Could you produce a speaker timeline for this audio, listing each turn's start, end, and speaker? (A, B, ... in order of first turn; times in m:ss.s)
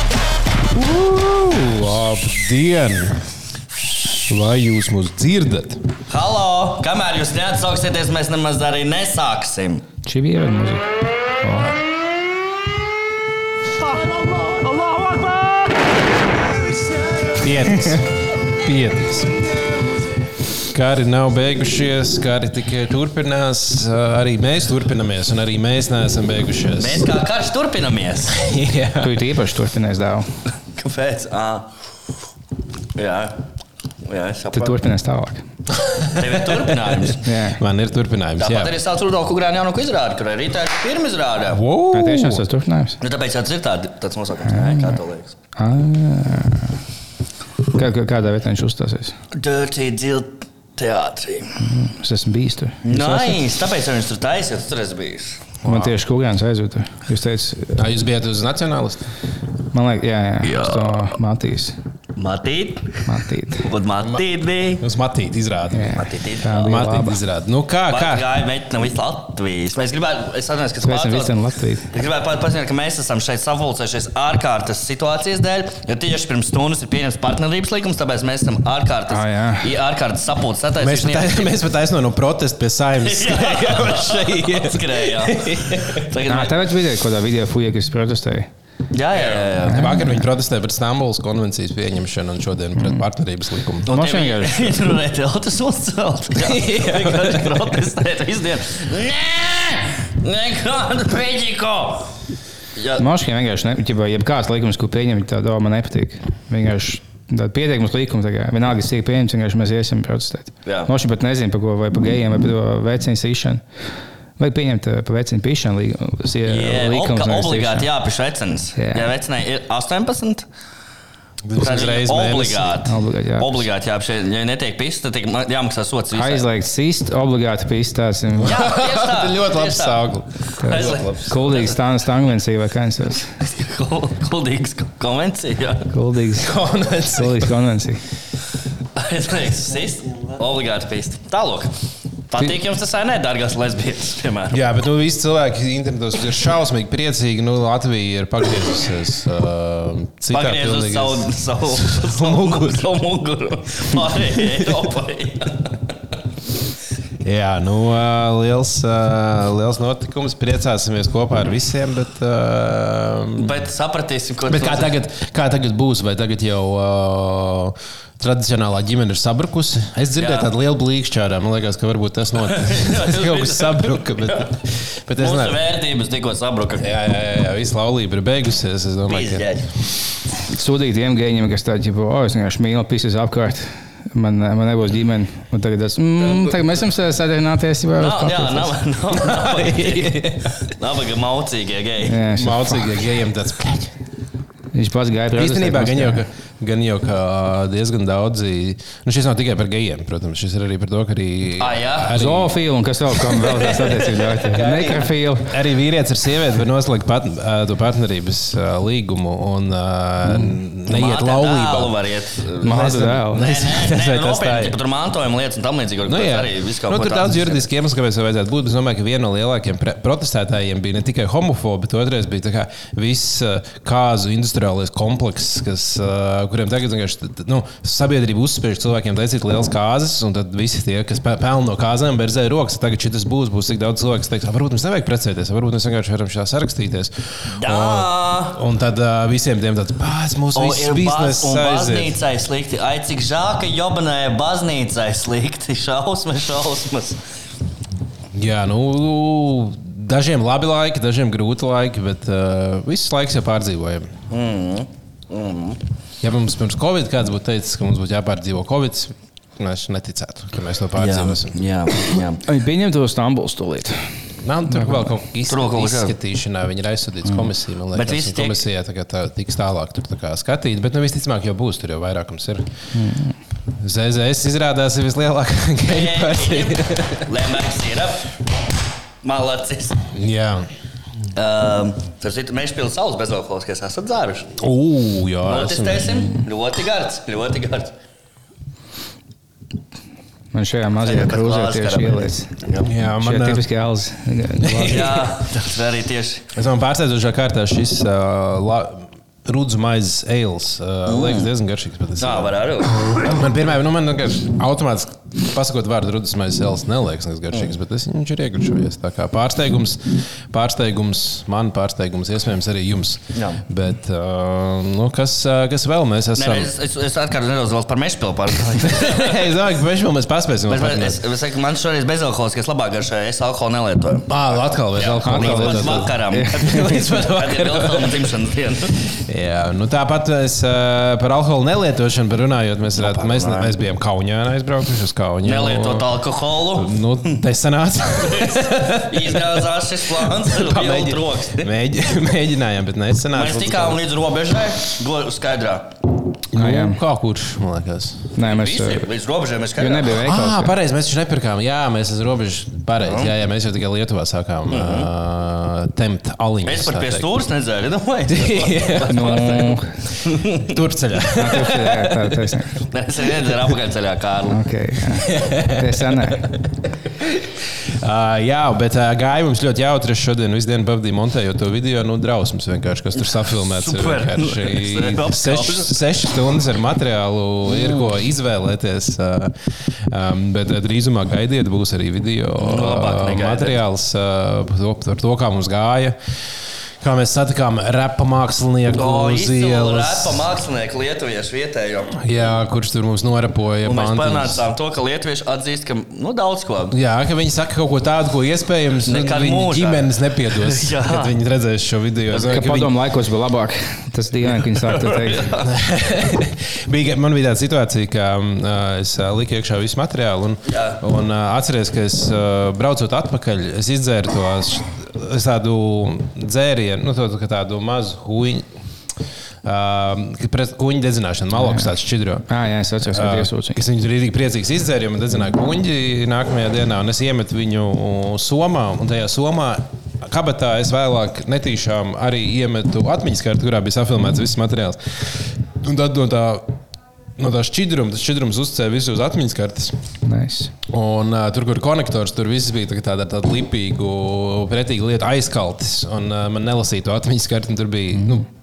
0:00.7-0:03.2 A
0:04.3-0:05.9 A
0:06.1-0:09.9 B
0:10.0-0:10.9 C
0:11.4-0:11.7 C
0:14.5-0:15.0 A
0:17.3-0:19.5 A
0:20.6-0:27.1 A
0:26.8-0:28.4 B
0:28.3-0:29.2 A
0:29.0-0:30.3 C
0:30.7-0:31.7 B
0:33.0-0:33.4 B
0:34.0-0:34.7 B
0:34.6-0:35.5 C
0:35.8-0:38.8 A
0:36.1-0:37.3 B
0:37.2-0:37.6 C
0:38.4-0:41.6 B
0:41.5-0:42.4 A
0:41.9-0:43.0 C
0:43.0-0:45.3 B
0:44.4-0:45.0 C
0:45.6-0:46.8 C
0:47.7-0:49.2 C
0:49.3-0:51.6 B
0:51.6-0:53.4 C
0:52.9-0:55.4 B
0:55.6-0:56.0 A
0:55.6-0:57.8 C
0:57.8-0:59.1 A
0:59.7-1:01.8 C
1:00.4-1:01.1 B
1:02.2-1:03.1 B
1:03.1-1:03.7 C
1:03.6-1:04.8 B
1:04.8-1:06.0 A
1:05.7-1:07.2 C
1:05.9-1:06.9 B
1:06.6-1:08.3 A
1:07.9-1:21.6 B
1:10.8-1:11.9 C
1:19.1-1:19.7 C
1:20.8-1:26.1 A
1:23.0-1:26.6 B
1:26.3-1:28.5 C
1:28.9-1:30.0 B
1:29.1-1:33.9 A
1:29.7-1:30.2 C
1:33.9-1:42.1 B
1:33.9-1:34.9 C
1:36.4-1:37.8 A
1:42.8-1:43.0 B
1:43.0-1:53.6 C
1:50.7-1:50.9 B
1:54.4-1:57.9 C
1:56.5-2:00.5 B
1:58.8-1:59.1 C
2:01.5-2:02.8 A
2:01.6-2:06.5 B
2:02.8-2:03.7 C
2:06.1-2:08.6 C
2:08.4-2:11.7 A
2:08.4-2:11.8 B
2:10.6-2:13.3 C
2:13.4-2:15.9 B
2:15.9-2:16.6 C
2:16.4-2:17.7 A
2:17.1-2:18.0 C
2:19.0-2:21.7 B
2:22.3-2:24.6 B
2:24.5-2:33.0 A
2:30.3-2:35.8 B
2:34.1-2:34.7 A
2:37.2-2:43.6 A
2:43.4-2:45.0 B
2:44.5-2:55.6 A
2:50.2-2:50.5 B
2:52.4-2:54.5 B
2:55.2-2:56.9 B
2:56.8-2:59.6 A
2:59.1-2:59.7 B
3:00.5-3:08.8 C
3:08.0-3:12.3 B
3:09.1-3:10.6 A
3:12.0-3:13.0 C
3:12.3-3:13.9 A
3:14.7-3:16.2 C
3:15.4-3:22.6 A
3:21.6-3:22.2 B
3:22.1-3:25.6 C
3:24.4-3:24.9 B
3:24.5-3:32.0 A
3:30.2-3:30.6 C
3:30.9-3:37.6 B
3:32.6-3:34.8 A
3:32.6-3:33.5 C
3:36.0-4:02.2 A
3:57.6-3:58.6 B
4:00.6-4:07.2 B
4:08.3-4:14.2 A
4:14.3-4:15.8 B
4:16.2-4:21.6 A
4:21.0-4:22.4 B
4:22.4-4:24.1 C
4:24.4-4:32.7 A
4:24.7-4:25.1 C
4:25.5-4:26.2 B
4:27.9-4:28.7 B
4:32.9-4:33.4 C
4:33.8-4:37.3 A
4:35.9-4:38.3 B
4:39.2-4:40.1 B
4:40.1-4:40.7 A
4:41.4-4:44.5 B
4:44.6-4:46.3 A
4:45.4-4:47.9 B
4:50.5-4:52.6 C
4:51.0-4:52.9 B
4:52.8-4:53.7 A
4:53.1-4:55.3 C
4:54.6-4:55.2 A
4:54.9-4:56.5 B
4:56.6-5:16.7 A
5:01.1-5:01.5 B
5:02.2-5:03.4 B
5:13.3-5:13.6 B
5:16.4-5:19.5 B
5:18.8-5:21.2 A
5:20.7-5:24.4 B
5:24.3-5:28.3 A
5:25.0-5:29.0 B
5:25.2-5:26.9 C
5:29.1-5:44.0 A
5:33.0-5:33.8 B
5:35.4-5:37.4 B
5:38.1-5:41.7 B
5:43.3-5:45.9 B
5:46.5-5:48.3 A
5:46.6-5:47.0 C
5:48.4-5:49.1 C
5:48.4-5:50.2 B
5:49.8-5:50.8 C
5:50.1-5:57.3 A
5:53.0-5:53.3 B
5:54.7-5:55.1 B
5:56.6-6:00.8 B
5:58.3-5:59.2 A
5:59.1-5:59.9 C
6:00.5-6:02.4 A
6:01.4-6:02.8 C
6:02.8-6:04.6 B
6:04.5-6:06.5 C
6:05.1-6:06.5 A
6:07.2-6:26.2 A
6:13.7-6:16.0 B
6:22.6-6:23.8 B
6:27.0-6:30.5 A
6:28.9-6:32.2 B
6:32.2-6:34.7 A
6:33.8-6:37.0 B
6:36.9-6:43.0 A
6:39.1-6:41.4 B
6:42.4-6:45.5 C
6:44.7-6:45.7 B
6:45.6-6:58.7 A
6:50.7-6:51.0 B
6:59.6-7:02.5 A
7:01.6-7:01.9 C
7:02.5-7:03.8 C
7:03.0-7:16.8 A
7:17.4-7:20.0 A
7:20.2-7:20.7 C
7:20.9-7:28.5 A
7:28.2-7:28.4 C